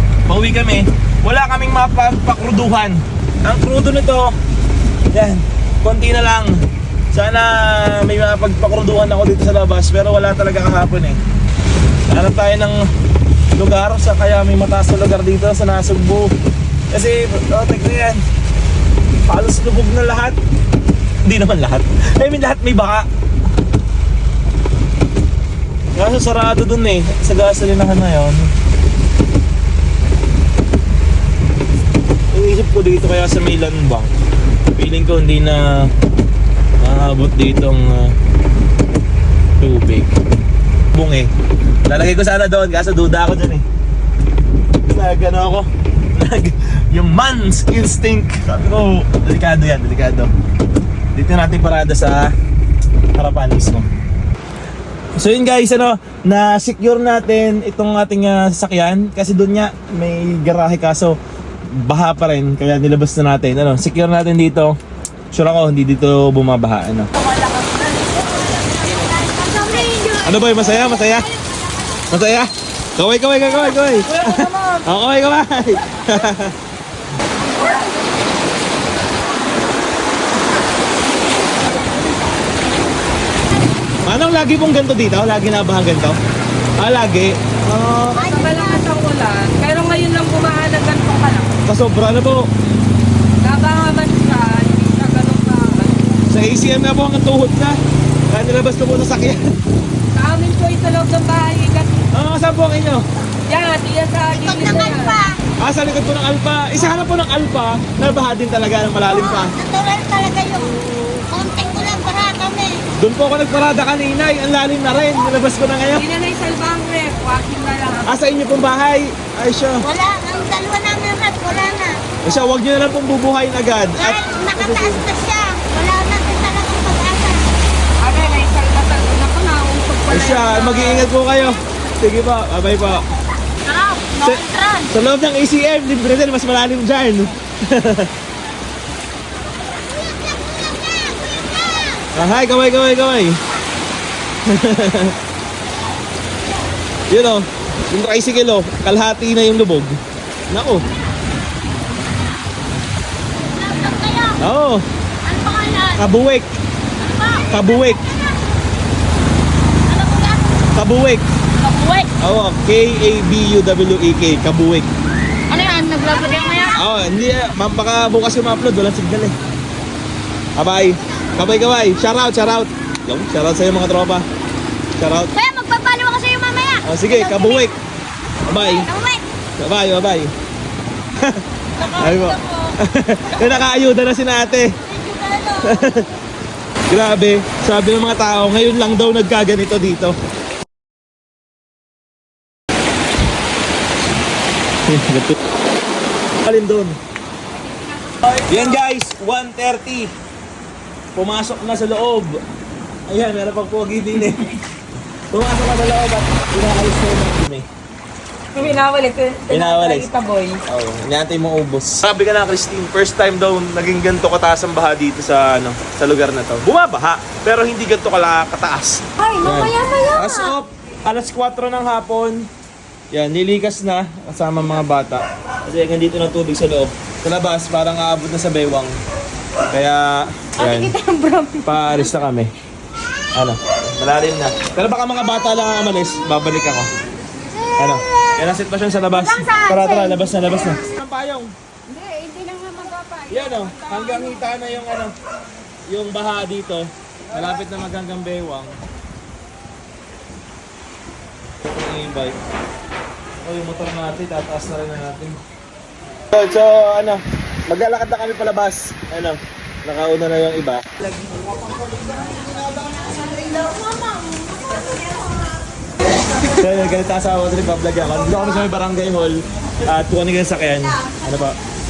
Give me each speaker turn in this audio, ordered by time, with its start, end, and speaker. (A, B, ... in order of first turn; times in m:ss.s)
0:00.3-0:04.3 A
0:05.1-0:06.5 A
0:07.1-0:11.2 A
0:12.1-0:12.8 A
0:13.6-0:16.3 A
0:16.9-0:18.2 A
0:19.3-0:20.4 A
0:21.2-0:23.1 A
0:26.0-0:28.5 A
0:32.3-0:34.1 A
0:34.8-0:35.6 A
0:36.8-0:38.1 A
0:39.6-0:40.1 A
0:40.9-0:41.3 A
0:41.9-0:43.6 A
0:44.9-0:50.3 A
0:51.1-0:52.3 A
0:53.2-0:53.9 A
0:55.2-1:01.2 A
1:01.7-1:04.7 A
1:05.3-1:07.1 A
1:08.2-1:12.0 B
1:10.2-1:11.3 A
1:12.1-1:16.6 A
1:24.0-1:26.2 A
1:26.8-1:28.2 A
1:28.1-1:31.5 C
1:28.2-1:28.8 B
1:31.7-1:32.5 A
1:33.4-1:36.1 C
1:36.3-1:37.8 A
1:38.3-1:39.4 A
1:40.2-1:42.0 C
1:42.1-1:43.0 A
1:43.5-1:45.2 C
1:44.3-1:45.4 B
1:45.6-1:49.5 A
1:49.1-1:52.8 B
1:53.0-1:56.0 A
1:56.0-1:58.2 C
1:58.1-1:59.9 A
1:59.8-2:02.0 B
2:02.2-2:05.0 A
2:04.0-2:07.5 B
2:08.0-2:11.1 C
2:10.1-2:13.1 A
2:13.7-2:14.9 B
2:14.2-2:18.1 A
2:20.6-2:21.1 B
2:22.1-2:23.4 A
2:24.5-2:25.2 A
2:27.1-2:29.9 A
2:30.5-2:30.9 A
2:33.6-2:34.4 B
2:34.4-2:34.9 A
2:35.2-2:36.0 B
2:36.0-2:36.5 A
2:37.0-2:38.3 B
2:37.5-2:38.0 A
2:39.9-2:40.5 B
2:40.8-2:41.2 A
2:41.6-2:42.1 B
2:42.2-2:44.9 A
2:45.5-2:46.9 B
2:46.0-2:46.7 C
2:46.8-2:49.4 A
2:50.6-2:54.2 A
2:55.0-2:55.3 A
2:55.4-2:57.7 B
2:56.8-2:57.7 A
2:58.4-2:58.9 A
2:58.5-2:59.2 B
2:59.6-3:00.3 A
3:01.2-3:04.7 A
3:01.8-3:02.7 C
3:04.9-3:06.0 B
3:05.6-3:06.0 A
3:06.9-3:10.2 A
3:14.9-3:15.4 A
3:16.4-3:17.0 A
3:18.1-3:18.4 C
3:18.5-3:20.1 A
3:21.2-3:22.4 A
3:23.1-3:24.6 A
3:25.3-3:27.7 A
3:28.5-3:30.6 C
3:29.5-3:30.1 A
3:30.7-3:42.4 A
3:43.1-3:49.0 A
3:49.7-3:51.0 A
3:50.6-3:51.7 C
3:51.6-3:52.5 A
3:53.4-3:56.9 A
3:57.8-4:01.5 A
3:59.4-3:59.9 B
4:03.3-4:05.1 A
4:05.9-4:08.8 A
4:11.6-4:12.4 A
4:13.4-4:15.4 A
4:16.3-4:20.8 A
4:21.8-4:24.8 B
4:26.4-4:31.6 A